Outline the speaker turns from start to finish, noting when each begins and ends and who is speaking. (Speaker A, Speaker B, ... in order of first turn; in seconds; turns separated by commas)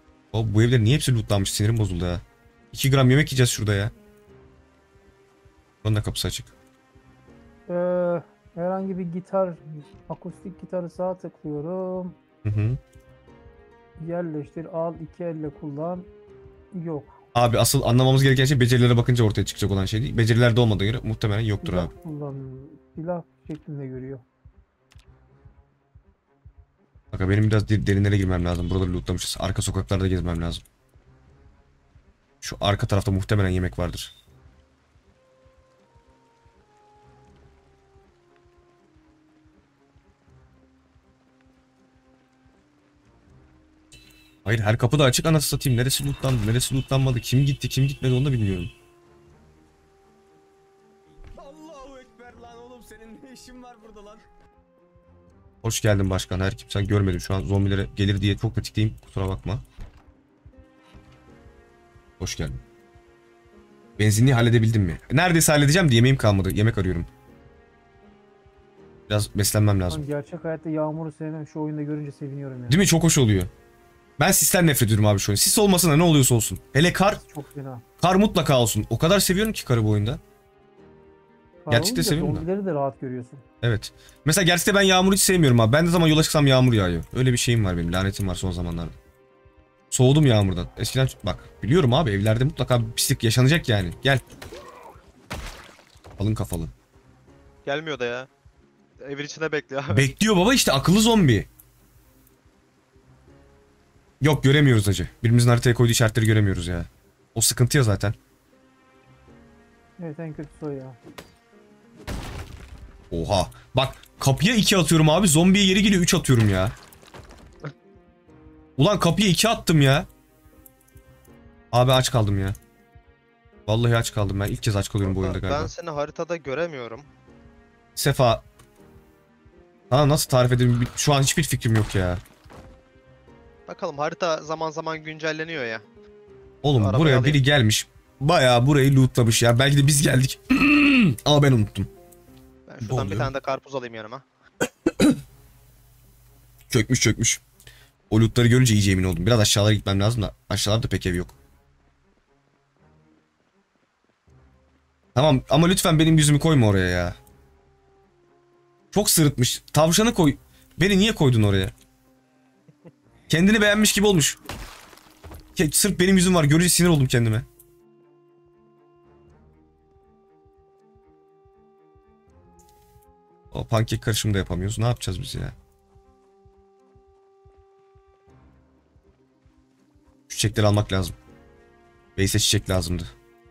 Speaker A: 0.3-3.9, Speaker A: 5.8-6.5, Speaker B: 7.7-12.2, Speaker A: 12.4-12.8, Speaker B: 14.0-16.1, Speaker B: 16.7-17.2, Speaker A: 17.3-21.9, Speaker B: 21.6-24.2, Speaker A: 27.1-30.6, Speaker A: 32.4-34.1, Speaker A: 44.5-48.7, Speaker A: 51.3-54.3, Speaker A: 55.6-59.6, Speaker A: 62.2-62.6, Speaker A: 64.0-67.1, Speaker A: 69.1-70.1, Speaker B: 69.9-72.9, Speaker A: 72.7-73.5, Speaker A: 74.2-77.2, Speaker B: 77.1-77.8, Speaker A: 78.0-80.2, Speaker B: 81.7-83.4, Speaker A: 81.7-82.5, Speaker A: 83.6-89.0, Speaker A: 89.9-94.2, Speaker A: 96.2-96.7, Speaker C: 97.7-98.3, Speaker C: 99.0-100.1, Speaker A: 99.9-101.5, Speaker A: 104.2-108.2, Speaker B: 110.0-111.0, Speaker A: 113.1-116.8, Speaker A: 118.8-120.1, Speaker A: 121.7-122.6, Speaker A: 123.7-125.7, Speaker C: 125.0-127.1, Speaker A: 128.0-128.4, Speaker A: 129.9-132.2, Speaker C: 133.7-135.8, Speaker A: 136.6-141.9, Speaker C: 136.8-137.4, Speaker C: 142.7-144.2, Speaker A: 142.8-143.3, Speaker A: 144.9-145.2, Speaker A: 146.7-147.4, Speaker A: 148.1-151.3, Speaker A: 155.2-157.2, Speaker A: 158.9-161.7, Speaker A: 163.3-164.4, Speaker A: 165.6-167.5, Speaker A: 173.5-175.6, Speaker A: 180.3-181.2, Speaker A: 182.2-183.1